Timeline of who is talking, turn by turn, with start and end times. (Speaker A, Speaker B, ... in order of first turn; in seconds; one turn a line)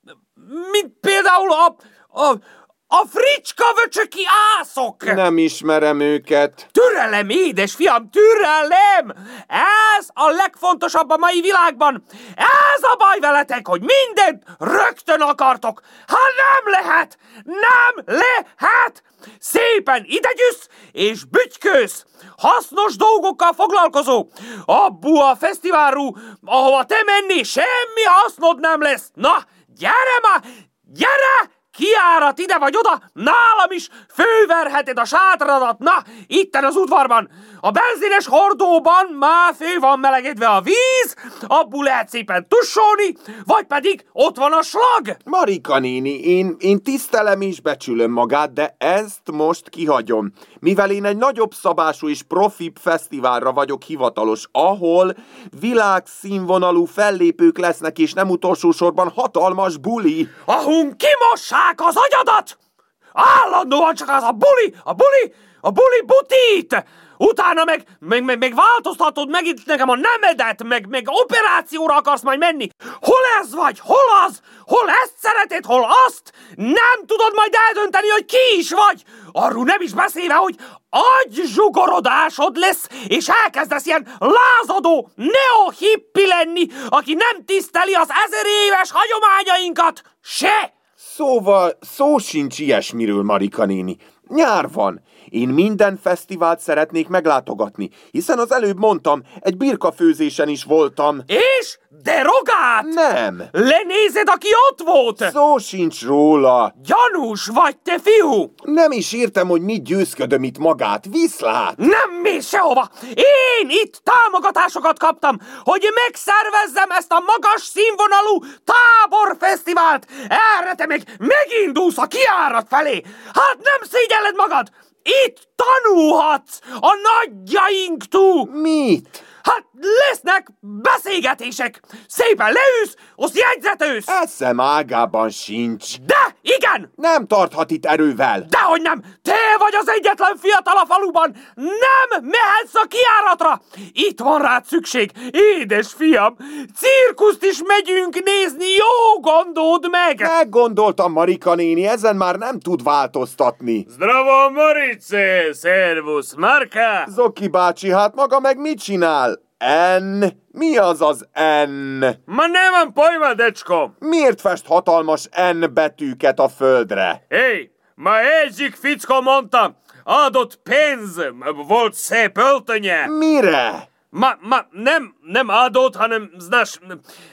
Speaker A: 0.4-5.2
Speaker B: 5.0-6.7
Speaker A: 6.7-45.2
Speaker B: 45.3-60.3
Speaker A: 60.5-62.6
Speaker A: 63.2-90.7
Speaker B: 91.0-101.3
Speaker A: 101.3-103.0
Speaker B: 102.8-103.5
Speaker A: 103.5-105.3
Speaker B: 105.2-106.7
Speaker A: 106.8-108.5
Speaker B: 108.6-111.8
Speaker A: 111.8-128.5
Speaker B: 128.4-129.2
Speaker A: 129.4-134.1
Speaker B: 134.1-136.0
Speaker A: 135.9-136.9
Speaker B: 137.0-138.5
Speaker A: 138.4-150.3
Speaker B: 150.2-153.9
Speaker A: 153.9-157.1
Speaker B: 157.1-162.2
Speaker A: 162.3-163.9
Speaker B: 164.0-167.2
Speaker A: 167.3-173.1
Speaker B: 173.0-173.9
Speaker A: 174.1-177.0